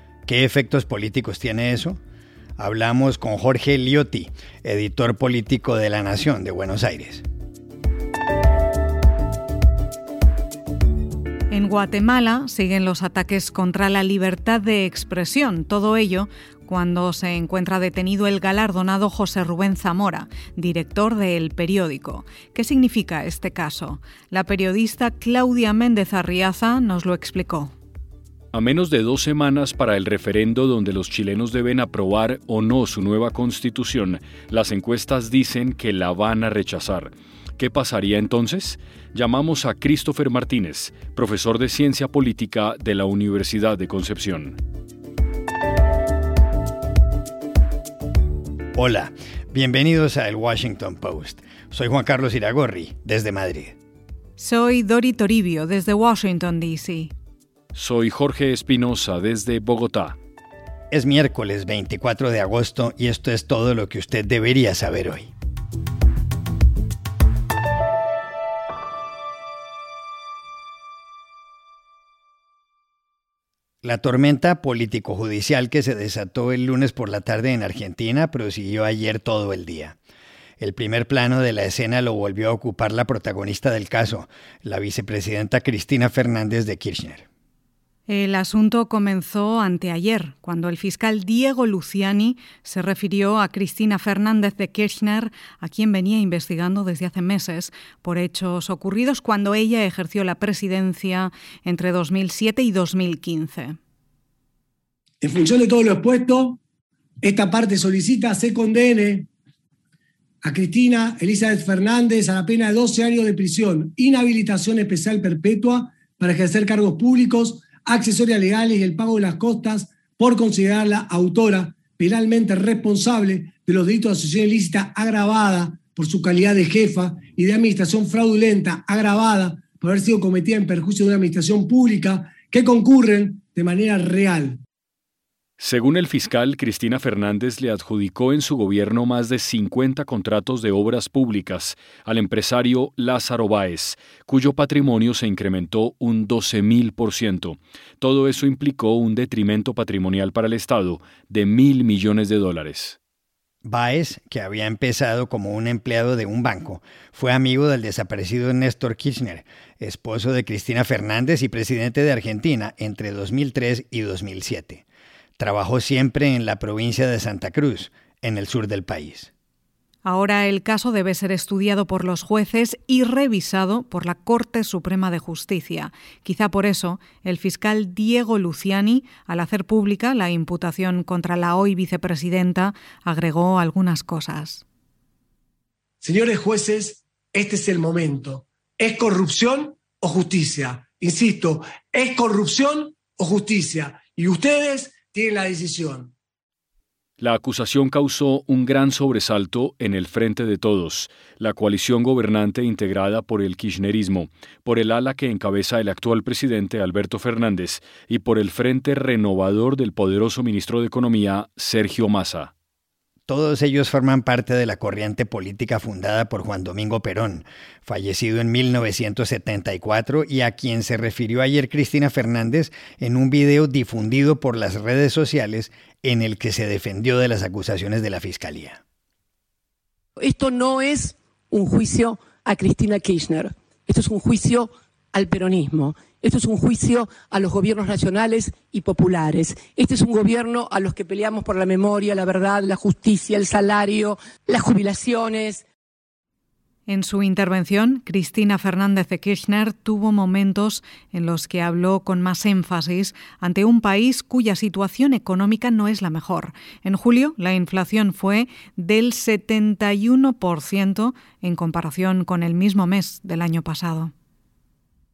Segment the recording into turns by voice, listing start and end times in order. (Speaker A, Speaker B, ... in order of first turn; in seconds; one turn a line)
Speaker A: 0.2-2.0
Speaker A: 2.6-7.2
Speaker B: 11.5-27.7
Speaker C: 28.5-44.6
Speaker A: 48.8-53.8
Speaker B: 54.4-57.1
Speaker C: 57.7-60.2
Speaker A: 60.9-65.3
Speaker A: 73.8-80.0
Speaker A: 80.6-87.2
Speaker B: 88.1-103.8
Speaker D: 105.2-106.6
Speaker D: 107.2-109.3
Speaker D: 110.4-134.6
Speaker C: 135.6-153.0
Speaker A: 153.6-164.8
Speaker A: 165.4-169.3
Speaker B: 170.0-184.6
Speaker D: 186.0-196.1
Speaker C: 197.2-212.5
Speaker A: 213.3-228.8
Speaker E: 230.2-245.6
Speaker B: 246.9-264.1